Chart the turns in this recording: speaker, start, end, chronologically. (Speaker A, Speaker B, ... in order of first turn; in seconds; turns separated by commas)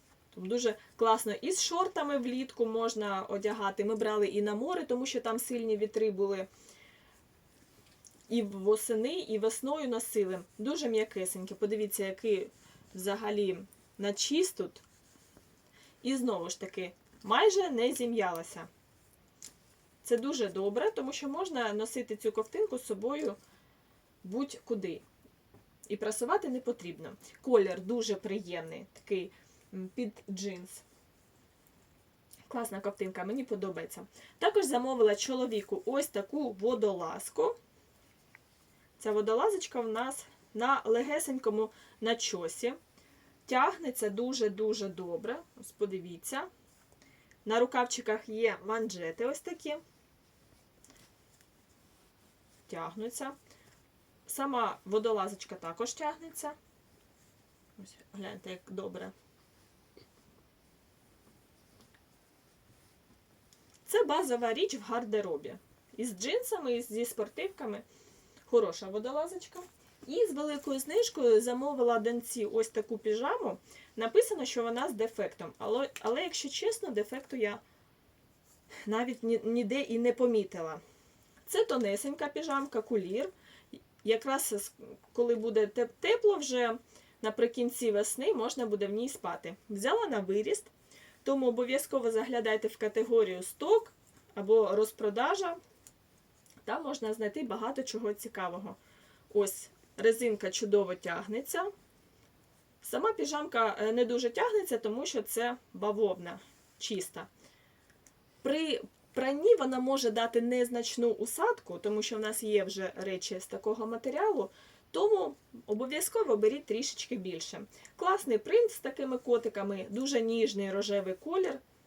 Speaker A: 0.3-6.5, Speaker A: 8.3-14.8, Speaker A: 16.0-18.7, Speaker A: 20.0-23.4, Speaker A: 24.2-25.1, Speaker A: 25.9-30.8, Speaker A: 32.5-37.6, Speaker A: 39.0-42.8, Speaker A: 43.5-46.5, Speaker A: 47.5-49.8, Speaker A: 52.7-53.4, Speaker A: 54.3-56.6, Speaker A: 57.8-59.1, Speaker A: 63.9-67.8, Speaker A: 68.5-77.6, Speaker A: 78.9-80.8, Speaker A: 81.5-90.7, Speaker A: 91.2-95.6, Speaker A: 96.7-98.8, Speaker A: 99.3-101.7, Speaker A: 102.8-107.3, Speaker A: 108.4-121.6